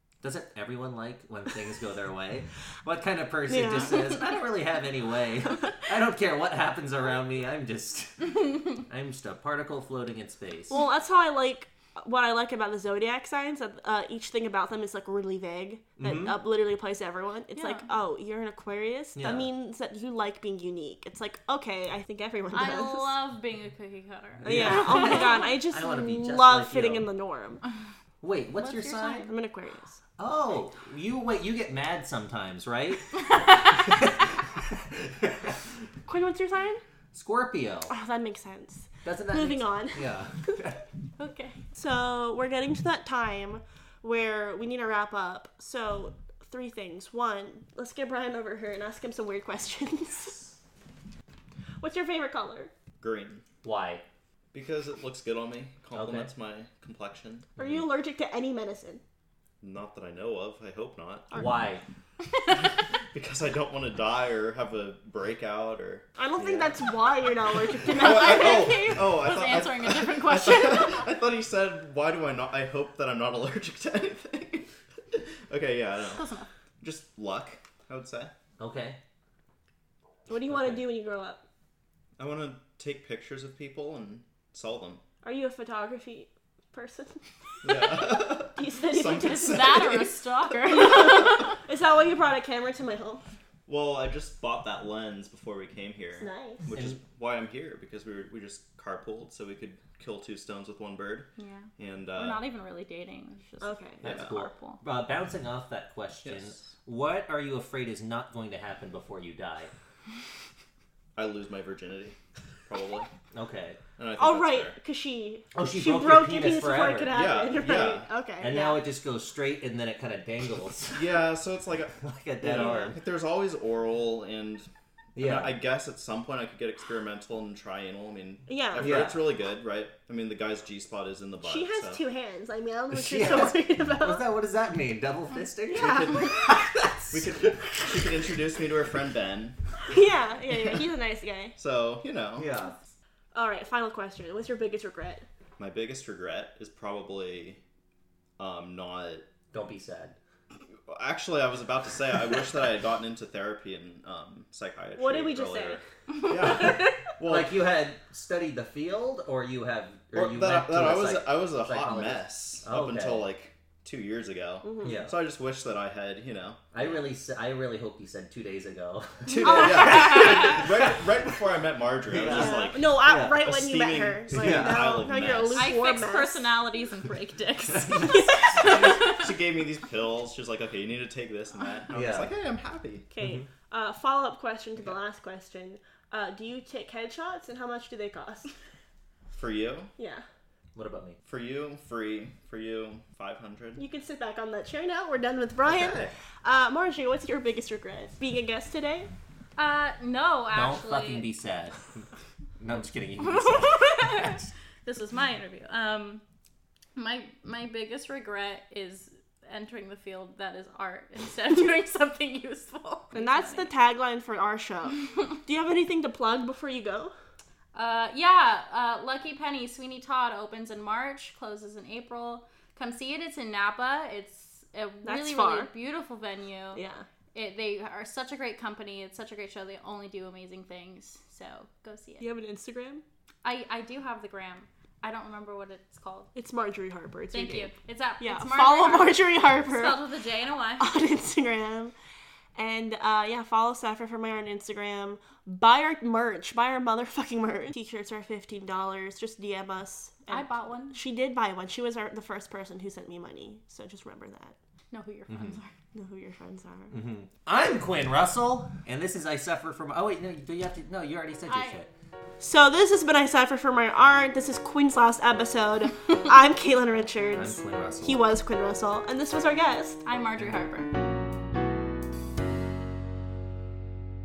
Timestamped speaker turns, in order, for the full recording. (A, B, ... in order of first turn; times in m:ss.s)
0:00.2-0:10.8 A
0:03.5-0:04.2 B
0:10.7-0:23.1 B
0:16.0-0:16.4 A
0:17.5-0:17.9 C
0:19.2-0:19.5 A
0:22.5-0:25.4 C
0:24.4-0:27.1 A
0:24.4-0:27.6 B
0:28.2-0:29.3 A
0:28.6-0:29.3 C
0:29.2-0:30.0 B
0:30.2-0:35.6 A
0:36.1-0:36.8 B
0:37.1-0:37.9 A
0:37.9-0:40.6 B
0:39.0-0:40.8 A
0:41.2-0:41.6 C
0:41.7-0:50.5 B
0:51.8-0:52.7 B
0:53.0-0:53.4 D
0:53.6-0:54.0 A
0:54.5-0:57.5 D
0:55.9-0:56.3 A
0:57.6-0:57.8 A
0:57.6-0:59.0 B
0:59.6-1:01.3 D
1:01.3-1:01.6 B
1:01.3-1:01.8 A
1:02.6-1:06.1 D
1:06.2-1:08.9 B
1:06.4-1:06.8 A
1:07.8-1:16.2 D
1:07.9-1:11.1 C
1:16.1-1:16.5 C
1:16.8-1:18.3 D
1:18.6-1:19.0 A
1:20.3-1:21.4 B
1:20.5-1:20.9 A
1:22.2-1:25.0 D
1:25.2-1:27.2 B
1:27.6-1:30.1 D
1:27.9-1:30.1 B
1:29.1-1:31.6 C
1:30.7-1:33.2 B
1:33.7-1:42.4 D
1:36.2-1:36.7 B
1:36.7-1:37.0 A
1:41.4-1:44.8 C
1:43.6-1:44.1 B
1:44.0-1:44.3 D
1:44.0-1:49.7 A
1:46.2-1:46.7 D
1:51.1-1:53.1 D
1:53.3-1:53.8 A
1:54.0-1:54.8 D
1:54.2-1:58.8 B
1:55.5-1:57.2 A
1:57.1-1:58.1 D
1:58.4-2:01.3 A
2:00.9-2:12.0 D
2:02.0-2:03.0 A
2:02.5-2:02.9 B
2:05.1-2:05.6 A
2:08.5-2:09.1 B
2:08.8-2:09.2 A
2:11.4-2:14.2 B
2:12.9-2:18.2 A
2:15.7-2:16.6 D
2:17.1-2:19.6 D
2:19.9-2:21.5 B
2:21.6-2:22.5 D
2:22.4-2:22.7 A
2:23.3-2:25.2 B
2:25.6-2:27.6 D
2:28.4-2:29.3 D
2:29.5-2:30.2 A
2:30.9-2:37.6 D
2:35.0-2:35.8 B
2:36.2-2:43.3 A
2:40.1-2:46.7 D
2:44.6-2:45.0 B
2:44.8-2:45.2 A
2:46.7-2:51.1 A
2:49.3-2:55.7 D
2:49.6-2:50.0 B
2:49.7-2:50.1 C
2:52.1-2:53.4 A
2:52.2-2:56.5 B
2:54.3-2:54.8 A
2:55.5-2:59.2 C
2:57.7-2:58.2 A
2:58.4-3:03.1 D
3:01.9-3:02.3 A
3:03.1-3:08.5 B
3:03.2-3:03.5 A
3:09.3-3:09.9 D
3:10.0-3:10.2 B
3:10.7-3:11.2 A
3:11.2-3:13.8 D
3:13.8-3:19.1 B
3:15.7-3:16.0 D
3:15.7-3:16.1 A
3:19.6-3:21.3 C
3:20.5-3:22.0 A
3:22.6-3:24.4 A
3:23.2-3:26.2 C
3:27.0-3:33.7 C
3:33.1-3:37.1 B
3:37.7-3:46.8 C
3:45.0-3:45.7 B
3:46.7-3:47.0 B
3:47.3-3:52.3 C
3:52.2-3:53.0 B
3:53.4-3:56.3 C
3:56.3-4:00.1 B
3:57.3-4:00.9 C
4:00.8-4:01.9 B
4:02.6-4:14.5 B
4:10.3-4:11.0 C
4:14.9-4:15.7 C
4:15.3-4:15.6 A
4:15.9-4:16.9 B
4:16.9-4:21.9 A
4:21.4-4:21.8 C
4:22.4-4:30.0 B
4:27.3-4:28.2 A
4:30.0-4:31.0 C